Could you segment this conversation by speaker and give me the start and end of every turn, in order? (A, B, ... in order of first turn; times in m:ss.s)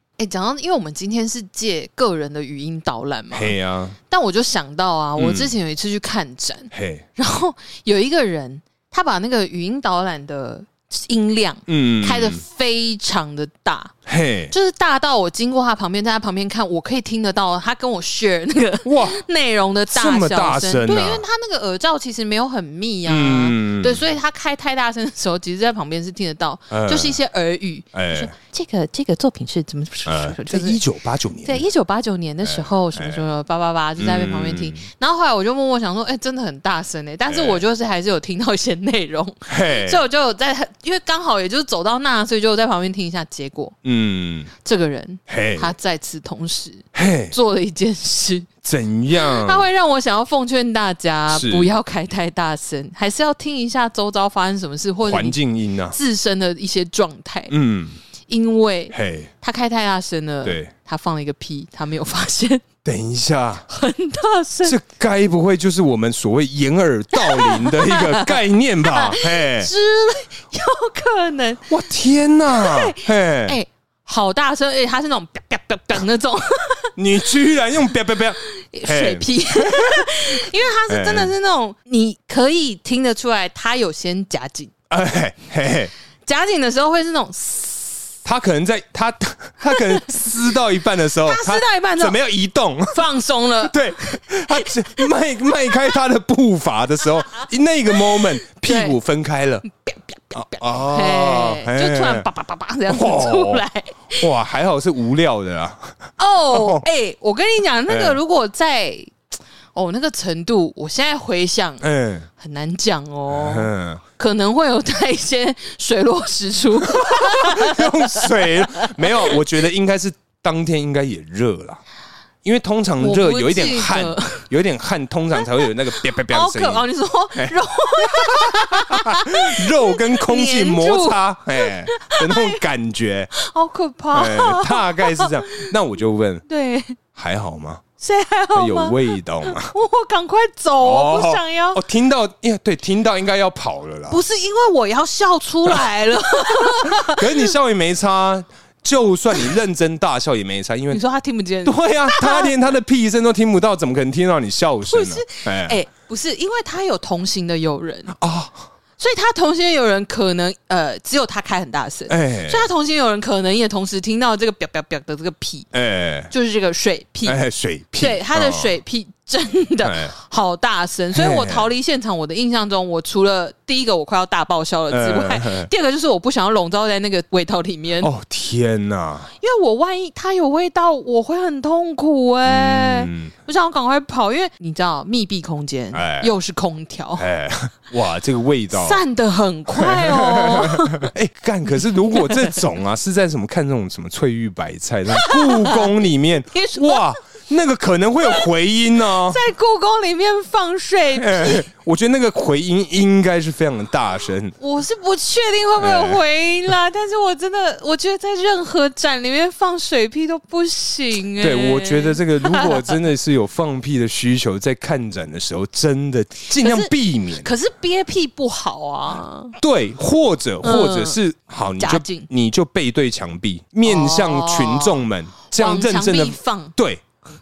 0:00.2-0:03.5 A
0:03.3-0:04.0 B
0:04.1-0:13.9 A
0:05.2-0:05.5 B
0:06.7-0:07.0 B
0:11.7-0:12.4 B
0:14.0-0:14.5 B
0:14.5-0:30.8 A
0:18.8-0:19.2 B
0:19.9-0:21.2 B
0:23.0-0:24.0 B
0:26.7-0:27.2 B
0:27.9-0:28.3 B
0:30.0-0:31.6 B
0:31.4-0:43.8 A
0:32.4-0:33.2 B
0:34.0-0:34.8 B
0:37.3-0:37.6 B
0:39.5-0:40.0 B
0:43.8-0:44.5 B
0:44.6-0:48.5 A
0:45.3-0:45.7 B
0:46.9-0:47.3 B
0:48.6-0:49.6 B
0:49.1-0:55.4 A
0:51.3-0:51.7 B
0:55.0-0:56.0 B
0:55.9-0:57.5 A
0:57.5-0:58.0 B
0:58.3-1:02.6 A
0:58.9-0:59.3 B
1:00.4-1:00.7 B
1:02.8-1:03.6 B
1:03.7-1:04.8 A
1:04.6-1:09.7 B
1:07.1-1:11.7 A
1:11.7-1:13.6 B
1:12.5-1:24.7 A
1:17.0-1:21.3 B
1:24.9-1:25.9 B
1:26.2-1:28.1 A
1:28.2-1:33.0 B
1:29.7-1:30.3 A
1:31.2-1:32.2 A
1:32.9-1:36.0 A
1:33.6-1:39.6 B
1:37.3-1:39.0 A
1:39.6-1:44.3 A
1:40.3-1:42.3 B
1:42.9-1:43.6 B
1:44.2-1:46.8 B
1:46.2-1:49.2 A
1:47.9-1:48.2 B
1:49.7-1:51.8 A
1:51.8-1:52.3 B
1:52.4-1:59.4 A
1:53.3-1:54.0 B
1:56.9-2:01.8 B
2:02.4-2:06.8 B
2:03.0-2:04.4 A
2:05.5-2:12.6 A
2:07.4-2:13.3 B
2:13.4-2:15.7 A
2:14.1-2:16.4 B
2:16.5-2:17.0 A
2:17.1-2:17.8 B
2:18.0-2:21.8 A
2:18.5-2:19.7 B
2:20.8-2:24.2 B
2:24.1-2:27.5 A
2:26.5-2:31.0 B
2:30.9-2:32.5 A
2:31.6-2:35.8 B
2:34.9-2:38.1 A
2:38.1-2:38.6 B
2:39.0-2:45.7 A
2:42.1-2:42.7 B
2:45.7-2:46.3 B
2:46.3-2:47.4 A
2:47.2-2:48.8 B
2:48.0-2:58.1 A
2:49.8-2:50.1 B
2:51.1-2:51.7 B
2:54.9-2:55.7 B
2:58.0-2:59.3 B
2:59.4-3:07.3 A
3:02.4-3:03.3 B
3:05.9-3:06.3 B
3:07.2-3:09.0 B
3:08.7-3:11.1 A
3:09.7-3:19.4 B
3:12.1-3:12.6 A
3:15.1-3:15.9 A
3:16.5-3:17.1 A
3:19.0-3:21.7 A
3:21.1-3:24.6 B
3:24.6-3:32.9 A
3:25.8-3:26.2 B
3:31.4-3:37.5 B
3:36.5-3:39.5 A
3:39.6-3:47.0 B
3:40.6-3:41.2 A
3:41.8-3:42.3 A
3:43.8-3:46.7 A